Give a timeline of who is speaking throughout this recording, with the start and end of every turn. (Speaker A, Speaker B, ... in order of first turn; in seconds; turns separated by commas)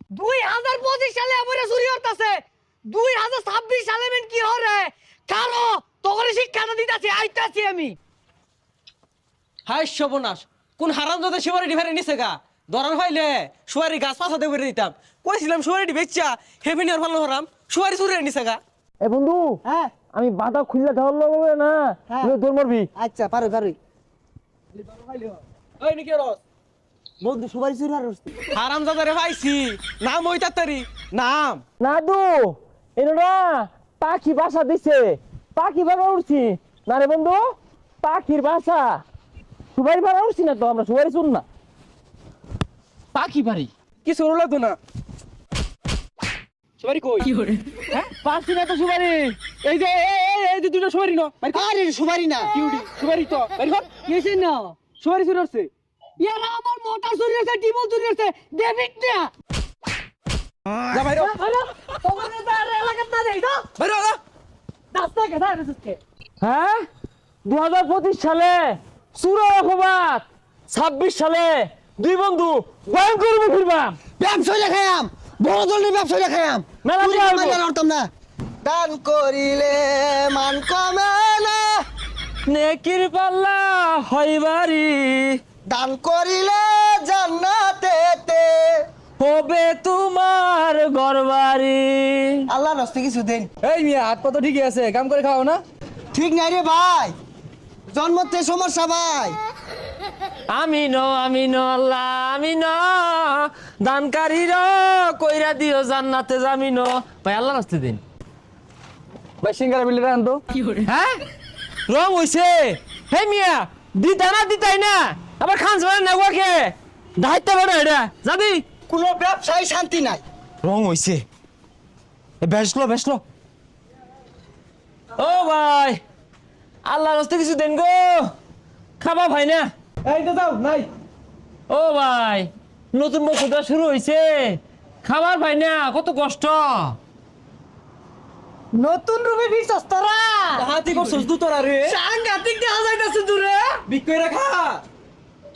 Speaker A: 0.1-8.0, Speaker B: 9.7-18.6, Speaker C: 19.0-19.6, Speaker D: 19.6-19.9, Speaker C: 20.1-22.9, Speaker D: 23.0-23.8, Speaker B: 24.9-26.4, Speaker D: 27.2-28.2, Speaker B: 28.5-31.6, Speaker C: 31.8-37.5, Speaker C: 38.0-39.0, Speaker C: 39.8-41.4, Speaker C: 43.1-43.7, Speaker B: 44.0-44.8, Speaker B: 46.8-47.5, Speaker C: 48.1-49.4, Speaker B: 49.6-51.6, Speaker D: 51.5-52.5, Speaker B: 52.5-53.9, Speaker A: 54.0-54.9, Speaker B: 54.9-55.7, Speaker A: 56.2-59.3, Speaker B: 60.9-61.3, Speaker A: 61.1-63.6, Speaker B: 63.8-64.2, Speaker A: 64.9-66.0, Speaker C: 66.4-66.8, Speaker C: 67.5-73.9, Speaker D: 74.2-78.1, Speaker C: 76.8-77.6, Speaker D: 78.6-81.8, Speaker C: 82.5-85.4, Speaker D: 85.7-88.8, Speaker C: 89.2-92.4, Speaker D: 92.5-93.5, Speaker B: 93.6-95.6, Speaker D: 96.1-97.1, Speaker D: 97.9-99.4, Speaker C: 100.5-108.0, Speaker B: 109.4-110.4, Speaker C: 110.8-111.1, Speaker C: 111.9-118.6, Speaker D: 118.9-120.2, Speaker C: 120.7-121.2, Speaker C: 122.4-123.2, Speaker C: 125.2-126.0, Speaker C: 126.8-128.3, Speaker C: 129.0-129.7, Speaker B: 130.1-130.9, Speaker C: 131.7-137.0, Speaker A: 138.7-140.7, Speaker B: 140.6-142.0, Speaker D: 142.0-143.7, Speaker B: 143.8-144.8